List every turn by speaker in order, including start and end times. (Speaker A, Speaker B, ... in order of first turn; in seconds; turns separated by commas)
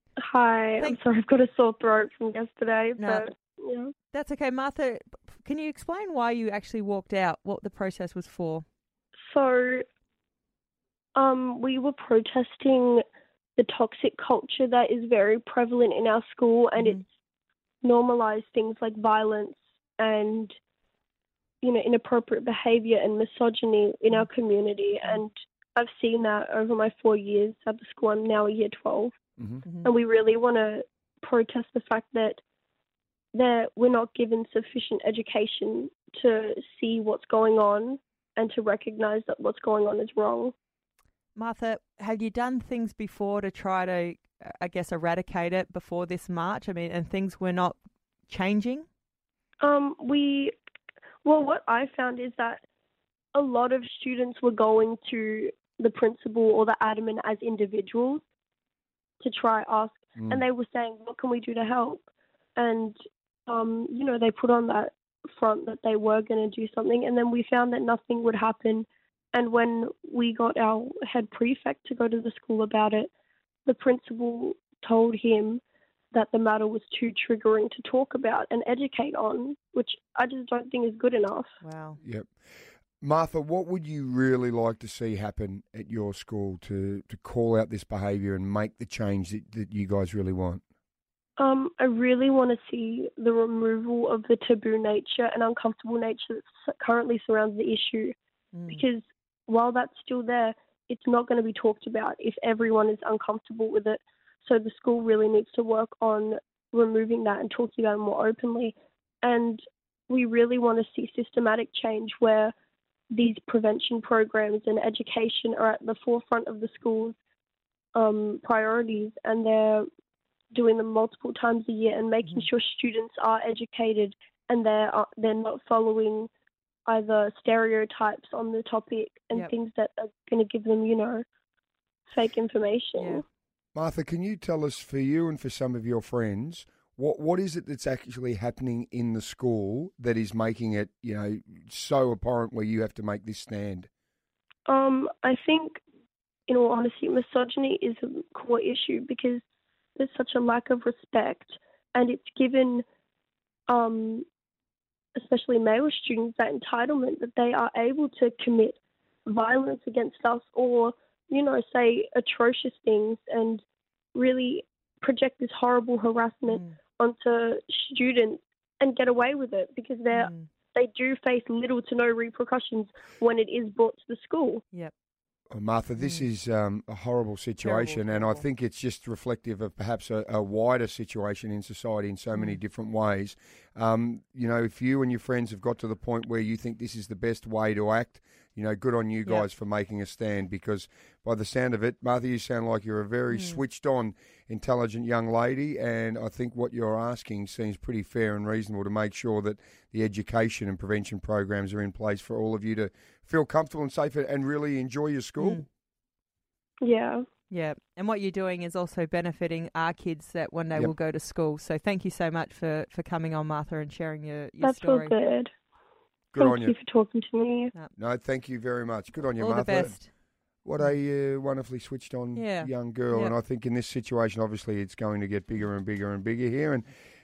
Speaker A: 0.2-3.9, Speaker B: 3.0-3.2, Speaker B: 4.1-8.7, Speaker A: 9.3-9.8, Speaker A: 11.2-13.0, Speaker A: 13.6-17.0, Speaker A: 17.8-20.5, Speaker A: 21.6-29.1, Speaker B: 29.6-29.9, Speaker A: 29.8-32.4, Speaker A: 33.3-40.5, Speaker B: 41.4-47.8, Speaker B: 48.3-48.9, Speaker A: 49.6-50.5, Speaker A: 51.2-52.6, Speaker A: 53.4-58.2, Speaker A: 59.2-62.0, Speaker C: 60.2-60.4, Speaker A: 62.6-63.0, Speaker A: 63.5-73.1, Speaker A: 73.7-81.5, Speaker B: 81.6-82.0, Speaker C: 82.0-82.3, Speaker C: 83.0-90.6, Speaker A: 91.4-98.2, Speaker B: 98.5-98.8, Speaker A: 98.7-112.5, Speaker A: 113.1-117.2, Speaker A: 118.0-119.9, Speaker A: 120.5-126.3, Speaker A: 126.9-131.2, Speaker A: 132.1-133.2, Speaker B: 133.0-133.2, Speaker C: 133.8-143.9, Speaker A: 144.7-145.8, Speaker A: 146.5-149.4, Speaker A: 150.0-152.8, Speaker A: 153.7-154.3, Speaker A: 155.2-163.6, Speaker A: 164.2-174.6, Speaker B: 166.5-166.7, Speaker B: 170.1-170.5, Speaker C: 175.5-205.6, Speaker B: 176.0-176.3, Speaker B: 177.6-178.4, Speaker B: 182.3-182.6, Speaker B: 193.3-193.6, Speaker B: 205.4-205.7, Speaker A: 206.8-207.2, Speaker B: 207.5-215.1, Speaker A: 214.6-215.5, Speaker C: 216.3-216.8, Speaker A: 216.4-217.7, Speaker C: 218.0-220.0, Speaker B: 219.4-220.1, Speaker C: 220.6-226.9, Speaker B: 222.3-223.3